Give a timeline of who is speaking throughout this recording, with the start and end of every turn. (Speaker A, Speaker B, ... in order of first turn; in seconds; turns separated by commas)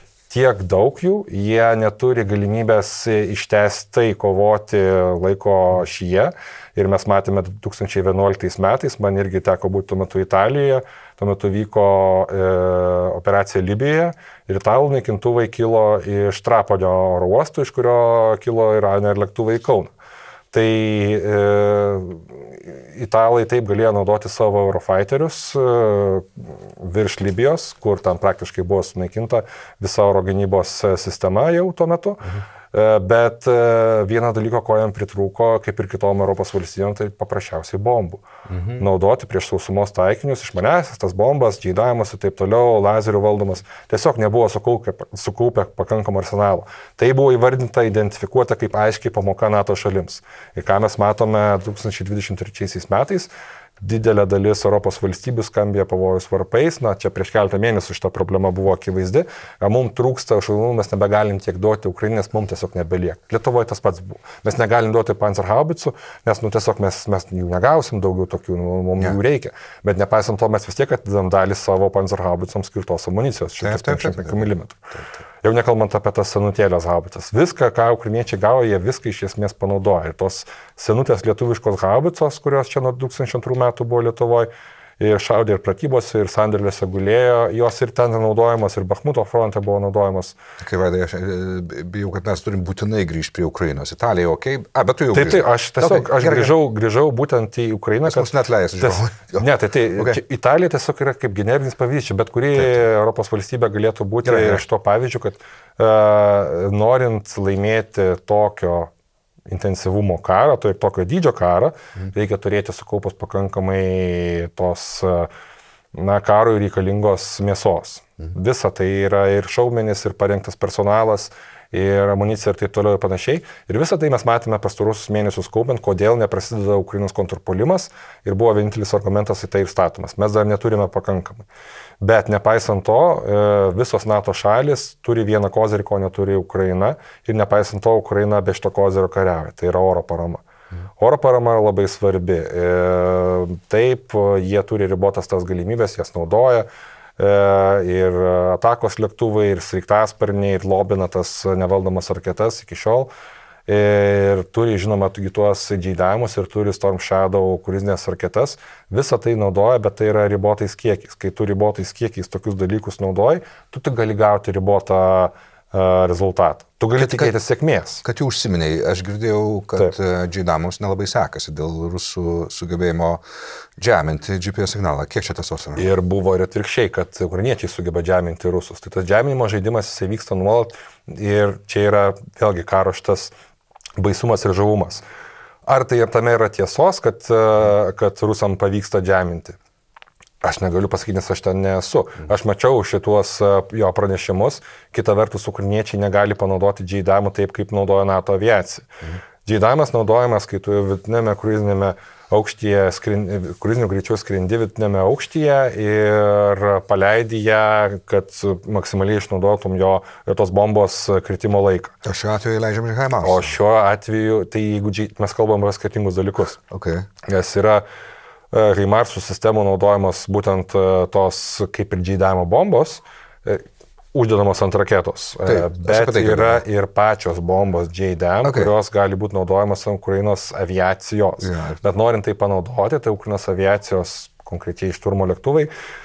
Speaker A: 0.3-19.9, Speaker A: 20.5-74.8, Speaker B: 38.5-38.8, Speaker B: 73.6-75.0, Speaker A: 75.4-84.5, Speaker A: 85.0-90.4, Speaker B: 90.6-96.5, Speaker A: 95.1-108.9, Speaker B: 98.0-100.2, Speaker B: 104.2-104.6, Speaker A: 109.5-115.3, Speaker A: 115.9-131.4, Speaker A: 132.0-140.4, Speaker A: 141.0-146.7, Speaker A: 147.2-153.1, Speaker A: 153.7-168.0, Speaker B: 167.0-167.3, Speaker B: 168.0-173.2, Speaker B: 173.8-175.9, Speaker A: 175.8-183.3, Speaker A: 184.0-185.0, Speaker A: 185.7-189.6, Speaker A: 190.4-198.9, Speaker A: 199.4-211.9, Speaker B: 212.0-213.6, Speaker A: 213.2-216.6, Speaker B: 216.7-217.1, Speaker A: 217.3-217.8, Speaker A: 218.5-235.7, Speaker B: 225.4-226.6, Speaker B: 228.4-228.7, Speaker B: 231.4-231.8